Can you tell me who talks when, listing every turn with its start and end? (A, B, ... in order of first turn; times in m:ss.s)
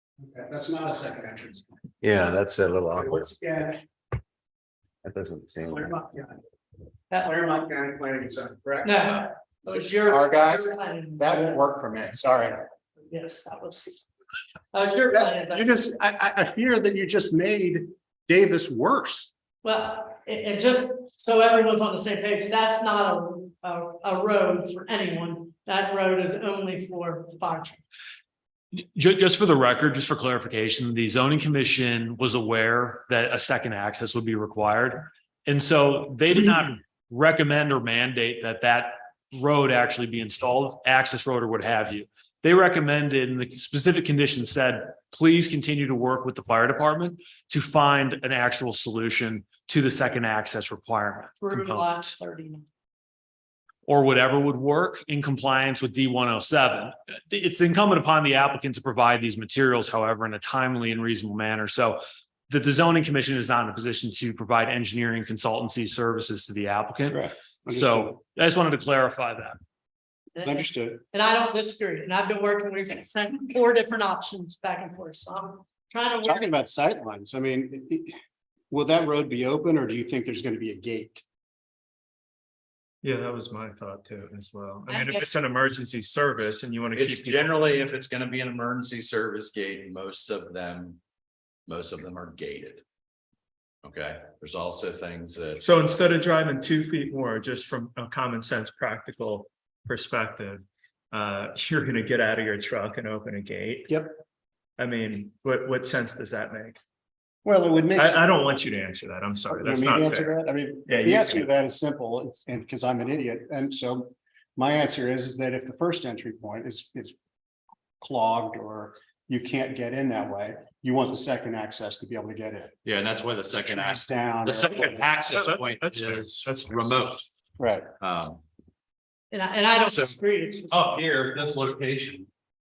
0:00.2-0:01.8 A
0:02.0-0:03.2 B
0:02.9-0:03.8 A
0:05.0-0:05.9 B
0:05.7-0:06.4 A
0:07.2-0:08.9 A
0:08.8-0:11.6 C
0:10.1-0:10.6 A
0:11.2-0:12.6 A
0:13.1-0:14.1 C
0:14.7-0:15.8 C
0:15.1-0:19.3 A
0:19.6-0:27.8 C
0:28.7-0:51.8 D
0:51.4-0:52.7 C
0:53.8-1:09.6 D
1:07.1-1:08.2 A
1:10.3-1:16.5 C
1:10.4-1:11.0 A
1:16.3-1:18.1 A
1:18.7-1:21.2 A
1:23.0-1:27.7 E
1:24.9-1:25.3 C
1:26.9-1:31.0 F
1:31.7-1:32.8 F
1:33.8-1:35.6 F
1:35.6-1:44.0 E
1:44.8-1:46.8 E
1:47.4-1:48.3 A
1:48.0-1:51.5 E
1:49.5-1:57.1 A
1:58.0-2:02.7 A
2:02.8-2:07.2 F
2:03.9-2:04.6 A
2:05.4-2:06.8 E
2:07.6-2:07.8 A
2:08.0-2:08.4 F
2:09.3-2:11.0 C
2:09.8-2:10.1 F
2:10.7-2:12.3 F